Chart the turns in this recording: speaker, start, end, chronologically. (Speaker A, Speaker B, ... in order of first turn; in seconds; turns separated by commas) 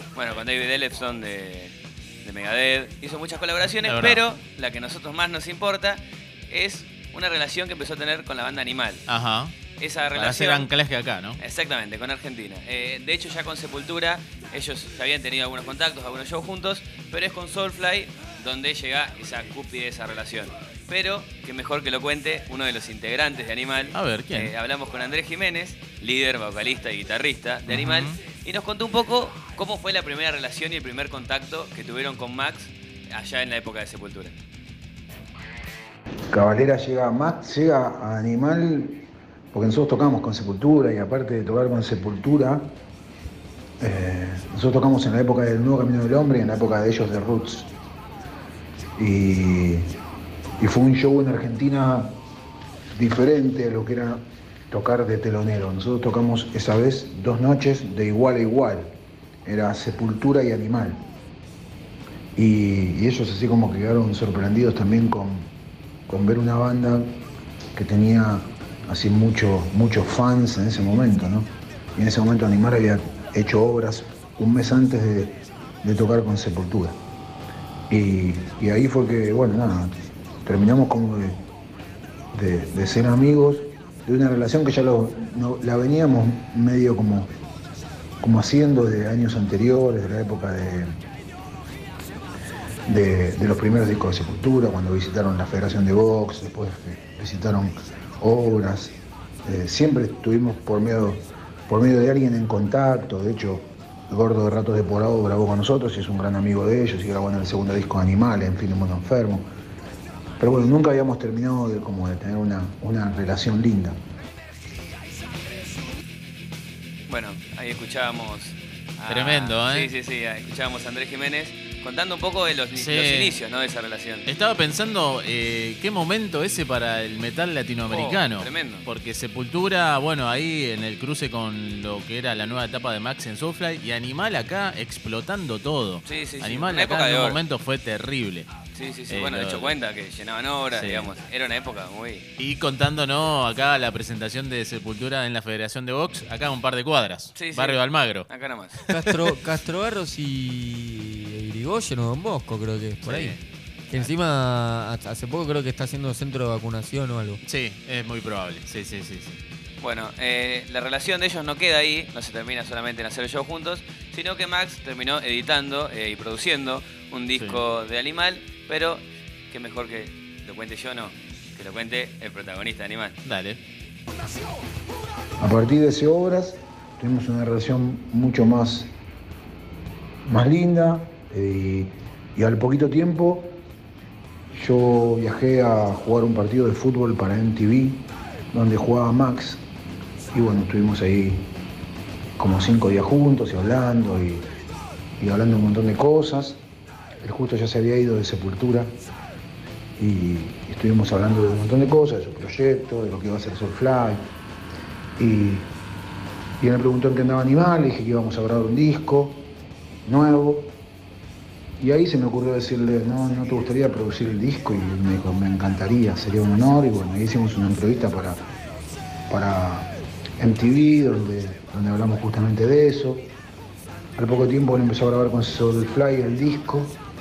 Speaker A: 0.1-9.1, Speaker B: 3.8-4.2, Speaker B: 9.1-9.6, Speaker A: 9.8-10.7, Speaker B: 10.1-11.4, Speaker A: 11.4-34.4, Speaker B: 23.9-24.5, Speaker B: 27.7-28.1, Speaker C: 36.3-42.8, Speaker C: 43.8-47.7, Speaker C: 49.0-49.9, Speaker C: 50.6-52.2, Speaker C: 53.0-58.9, Speaker C: 59.5-61.0, Speaker C: 62.4-65.5, Speaker C: 66.1-67.2, Speaker C: 67.8-77.0, Speaker C: 77.9-81.4, Speaker C: 82.3-87.3, Speaker C: 88.2-90.9, Speaker C: 92.9-109.5, Speaker C: 110.4-114.0, Speaker A: 117.1-124.3, Speaker B: 119.1-119.9, Speaker B: 122.8-123.4, Speaker B: 124.3-138.5, Speaker A: 127.9-128.9, Speaker A: 136.0-137.4, Speaker A: 138.8-142.3, Speaker B: 139.1-139.7, Speaker B: 140.7-141.1, Speaker B: 142.4-148.3, Speaker A: 147.3-148.8, Speaker B: 148.8-149.1, Speaker D: 148.9-153.4, Speaker B: 153.1-153.4, Speaker D: 153.9-157.4, Speaker B: 157.4-159.4, Speaker A: 159.8-173.2, Speaker B: 167.4-167.6, Speaker B: 173.2-173.6, Speaker C: 175.4-178.9, Speaker C: 180.2-183.6, Speaker C: 184.5-189.6, Speaker C: 190.3-191.5, Speaker C: 192.4-194.5, Speaker C: 195.2-196.6, Speaker C: 197.2-198.9, Speaker C: 200.0-204.2, Speaker C: 205.2-205.7, Speaker C: 206.6-209.5, Speaker C: 210.1-210.8, Speaker C: 211.8-218.4, Speaker C: 219.3-223.3, Speaker C: 224.2-227.0